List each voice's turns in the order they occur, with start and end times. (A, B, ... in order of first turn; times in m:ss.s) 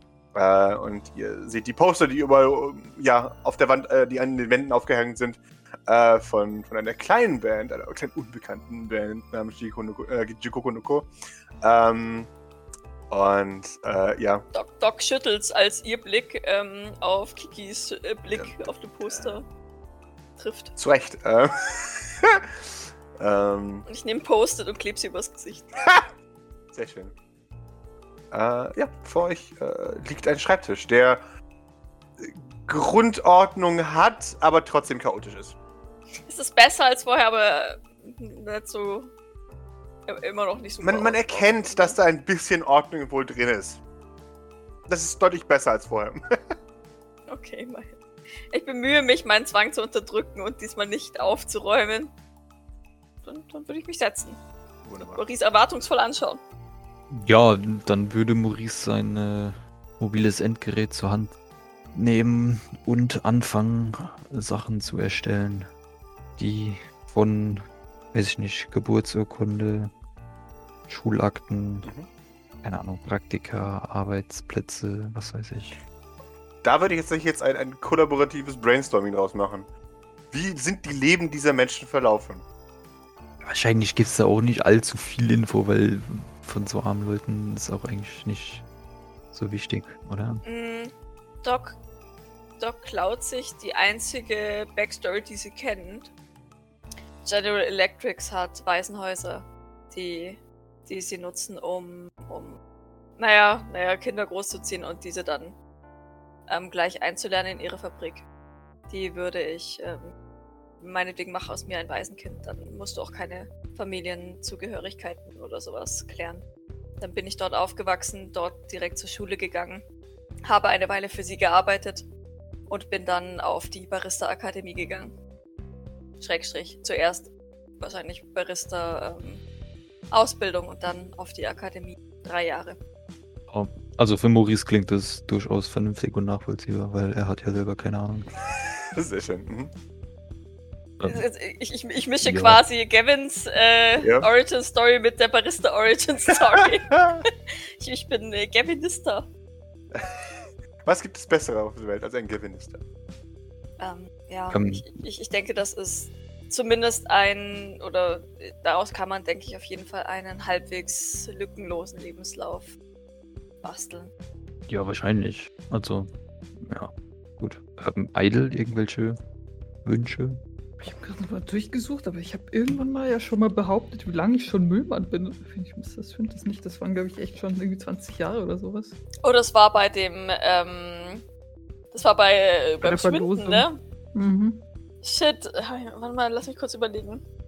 0:00.3-0:11.1 A
0:11.6-0:12.3 A
0:13.1-0:14.4 A
0:14.5-0:19.4 B
0:18.3-0:19.4 A
0:20.4-0:20.7 B
0:20.8-0:22.4 A
0:23.2-0:23.8 A
0:23.9-0:25.7 B
0:25.8-0:26.1 A
0:26.7-0:27.1 A
0:28.3-0:31.2 A
0:32.2-0:35.6 A
0:36.3-0:39.1 B
0:40.1-0:42.0 B
0:40.8-0:43.8 A
0:44.9-0:46.2 A
0:47.3-0:48.0 B
0:48.5-0:52.1 B
0:53.2-0:54.4 B
0:54.8-0:55.2 A
0:55.0-0:56.4 B
0:57.1-1:01.4 C
1:01.9-1:05.7 C
1:06.4-1:09.9 C
1:10.9-1:11.9 C
1:12.6-1:15.8 C
1:16.6-1:19.7 A
1:20.3-1:22.4 A
1:23.4-1:28.6 C
1:29.3-1:30.4 C
1:30.4-1:30.9 B
1:31.4-1:31.8 B
1:32.6-1:36.1 B
1:37.2-1:42.6 B
1:43.2-1:45.6 B
1:46.5-1:48.2 B
1:48.9-1:50.1 B
1:50.8-1:56.4 B
1:57.0-1:59.8 B
2:00.5-2:02.0 B
2:02.7-2:05.1 B
2:06.2-2:09.4 B
2:10.1-2:12.8 B
2:13.5-2:18.3 C
2:18.5-2:19.7 A
2:21.1-2:26.9 B
2:22.2-2:22.6 C
2:24.0-2:24.3 A
2:26.6-2:27.2 A
2:27.8-2:29.3 B
2:29.9-2:32.8 A
2:33.8-2:42.7 B
2:34.5-2:34.8 C
2:43.6-2:44.1 B
2:44.7-2:49.2 C
2:49.8-2:50.4 C
2:50.8-2:58.9 D
2:59.2-3:01.2 B
3:01.9-3:03.8 B
3:02.8-3:04.6 D
3:05.0-3:07.2 B